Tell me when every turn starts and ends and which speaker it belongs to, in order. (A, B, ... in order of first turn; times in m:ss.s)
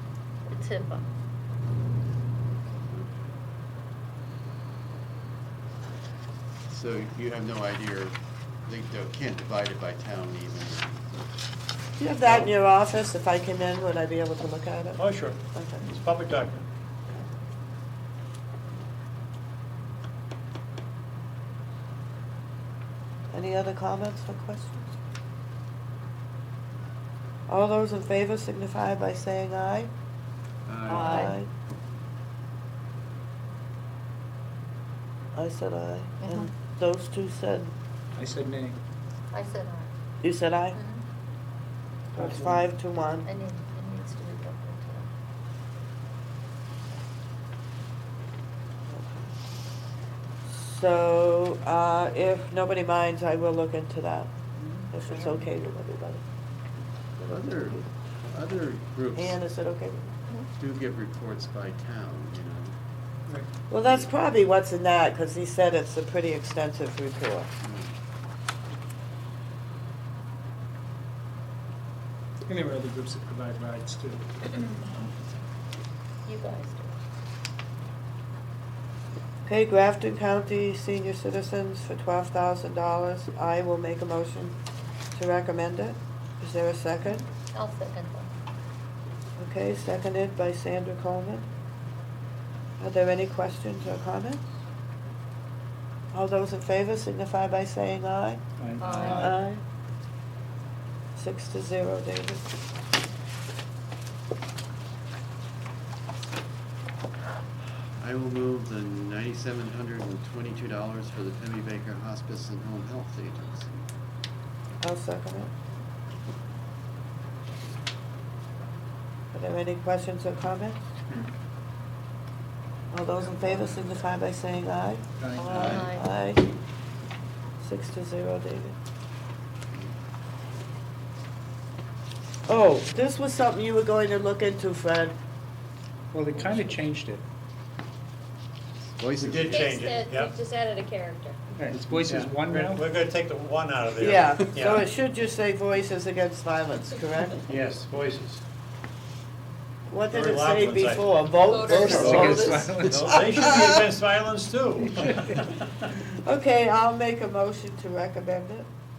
0:00.5-0:01.1 A
0:02.9-0:03.1 B
0:06.7-0:11.4 B
0:12.0-0:15.8 C
0:12.2-0:12.6 B
0:15.0-0:16.7 D
0:23.3-0:24.9 C
0:27.5-0:29.9 C
0:30.7-0:31.3 B
0:30.9-0:31.5 C
0:30.9-0:31.4 A
0:35.4-0:37.7 C
0:36.2-0:36.5 A
0:38.2-0:38.8 E
0:39.3-0:39.9 A
0:40.2-0:40.8 C
0:40.7-0:41.0 A
0:42.1-0:43.3 C
0:42.2-0:42.7 E
0:43.3-0:45.1 A
0:48.9-0:49.3 C
0:50.5-0:54.3 C
0:54.6-0:54.9 E
0:54.9-0:56.2 C
0:57.2-0:59.4 B
0:59.2-1:00.1 C
1:00.6-1:02.8 B
1:03.7-1:07.5 C
1:03.8-1:04.1 B
1:07.6-1:07.9 B
1:12.5-1:14.6 E
1:16.2-1:17.0 A
1:19.5-1:24.6 C
1:25.1-1:27.3 C
1:27.5-1:28.4 A
1:29.4-1:31.5 C
1:32.8-1:34.5 C
1:36.1-1:38.4 C
1:38.6-1:39.4 E
1:38.8-1:39.3 A
1:38.8-1:39.3 F
1:39.1-1:39.6 C
1:41.2-1:42.5 C
1:48.0-1:53.9 B
1:54.8-1:55.5 C
1:59.3-2:00.8 C
2:02.9-2:06.4 C
2:03.2-2:03.7 E
2:05.2-2:05.7 E
2:05.4-2:06.1 A
2:05.5-2:05.9 B
2:07.6-2:08.8 C
2:12.5-2:15.2 C
2:16.1-2:17.2 E
2:19.0-2:19.6 B
2:19.2-2:20.4 D
2:19.5-2:21.4 F
2:21.6-2:22.9 E
2:21.7-2:24.9 D
2:24.0-2:27.4 C
2:27.5-2:28.4 D
2:29.9-2:33.8 C
2:30.1-2:31.2 D
2:31.4-2:32.5 F
2:31.6-2:33.2 E
2:31.9-2:35.5 D
2:34.9-2:35.4 E
2:36.0-2:38.7 C